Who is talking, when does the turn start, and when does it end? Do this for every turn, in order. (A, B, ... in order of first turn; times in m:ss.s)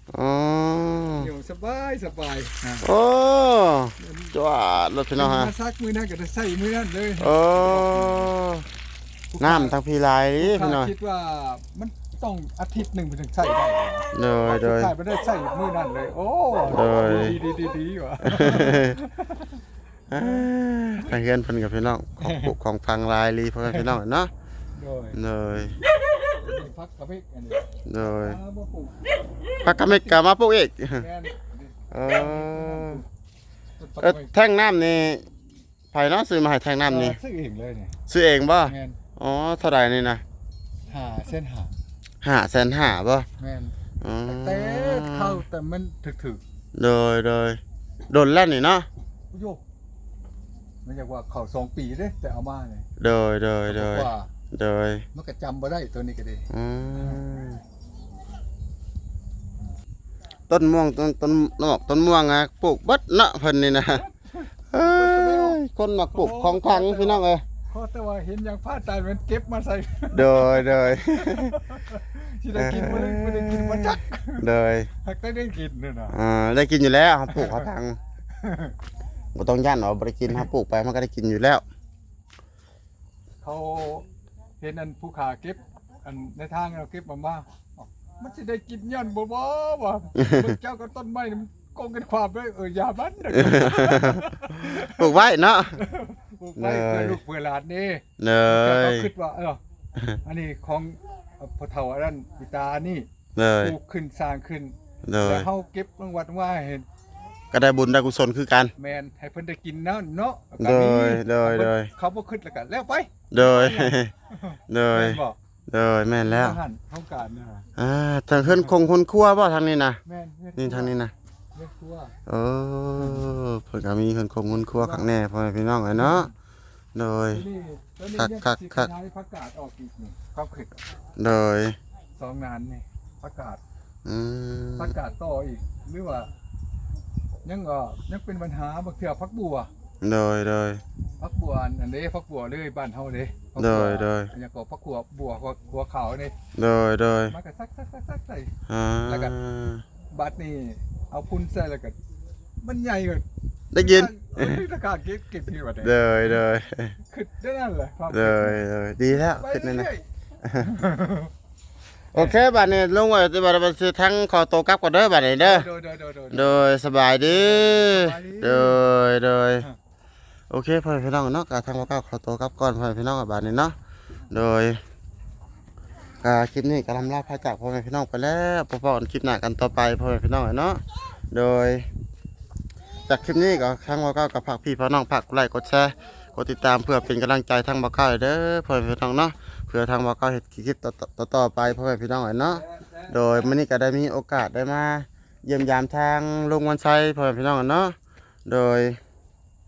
0:00.1-0:01.3 A
0:01.1-0:02.9 B
0:02.8-0:05.5 A
0:04.0-0:04.3 B
0:05.2-0:08.3 B
0:07.2-0:08.7 A
0:09.3-0:09.8 B
0:09.4-0:10.9 A
0:10.4-0:19.6 B
0:14.1-0:14.9 A
0:16.7-0:17.4 A
0:18.2-0:19.0 A
0:20.1-0:24.3 A
0:20.2-0:20.4 B
0:22.2-0:22.5 B
0:23.6-0:24.0 B
0:24.7-0:25.2 B
0:25.1-0:25.8 A
0:26.2-0:30.2 B
0:27.9-0:28.4 A
0:29.6-0:31.1 A
0:31.0-0:33.0 B
0:31.9-0:33.0 A
0:33.8-0:34.3 B
0:34.0-0:35.3 A
0:35.9-0:37.2 A
0:36.8-0:38.0 B
0:38.1-0:40.2 A
0:38.6-0:39.0 B
0:40.9-0:41.7 B
0:42.2-0:43.3 A
0:43.4-0:43.7 B
0:44.0-0:45.4 A
0:44.2-0:46.4 B
0:46.7-0:48.9 A
0:49.3-0:49.6 B
0:50.8-0:52.9 B
0:53.0-0:55.0 A
0:53.7-0:54.3 B
0:55.1-0:57.2 B
0:56.5-0:57.6 A
1:00.5-1:04.0 A
1:03.8-1:05.6 B
1:04.7-1:07.4 A
1:06.1-1:14.5 B
1:10.1-1:11.6 A
1:12.6-1:14.9 A
1:15.0-1:16.2 B
1:16.1-1:18.0 A
1:17.3-1:17.7 B
1:18.3-1:18.8 B
1:19.3-1:21.6 A
1:23.4-1:24.0 B
1:24.6-1:35.2 B
1:30.2-1:30.5 A
1:33.3-1:35.8 A
1:35.8-1:39.6 B
1:36.6-1:37.2 A
1:38.2-1:39.1 A
1:40.2-1:43.1 B
1:43.3-1:43.8 A
1:43.6-1:46.9 B
1:45.0-1:45.5 A
1:47.5-1:48.7 A
1:48.8-1:55.4 B
1:50.6-1:51.9 A
1:53.3-1:54.1 A
1:54.7-1:56.6 A
1:56.2-1:57.6 B
1:57.8-2:00.0 A
2:00.0-2:00.9 B
2:00.6-2:01.1 A
2:01.5-2:02.1 B
2:02.2-2:06.3 A
2:03.0-2:03.3 B
2:04.5-2:05.1 B
2:05.9-2:06.3 B
2:06.9-2:07.4 A
2:07.3-2:10.9 B
2:08.2-2:08.9 A
2:11.2-2:11.8 A
2:12.2-2:13.6 B
2:14.0-2:14.9 A
2:14.8-2:16.3 B
2:17.4-2:19.7 B
2:20.0-2:20.8 A
2:21.2-2:26.3 B
2:23.6-2:24.3 A
2:26.6-2:27.3 A
2:27.3-2:28.5 B
2:28.7-2:29.8 A
2:29.0-2:29.3 B
2:30.1-2:32.0 B
2:32.6-2:36.0 B
2:33.7-2:34.6 A
2:35.8-2:37.0 A
2:37.1-2:40.0 B
2:38.1-2:39.9 A
2:40.4-2:40.7 A
2:40.6-2:41.3 B
2:42.1-2:45.7 A
2:45.4-2:46.6 B
2:46.3-2:49.6 A
2:47.2-2:48.9 B
2:50.5-2:53.8 A
2:54.3-2:54.8 A
2:56.2-3:01.9 A
3:03.1-3:19.0 A
3:12.5-3:13.6 B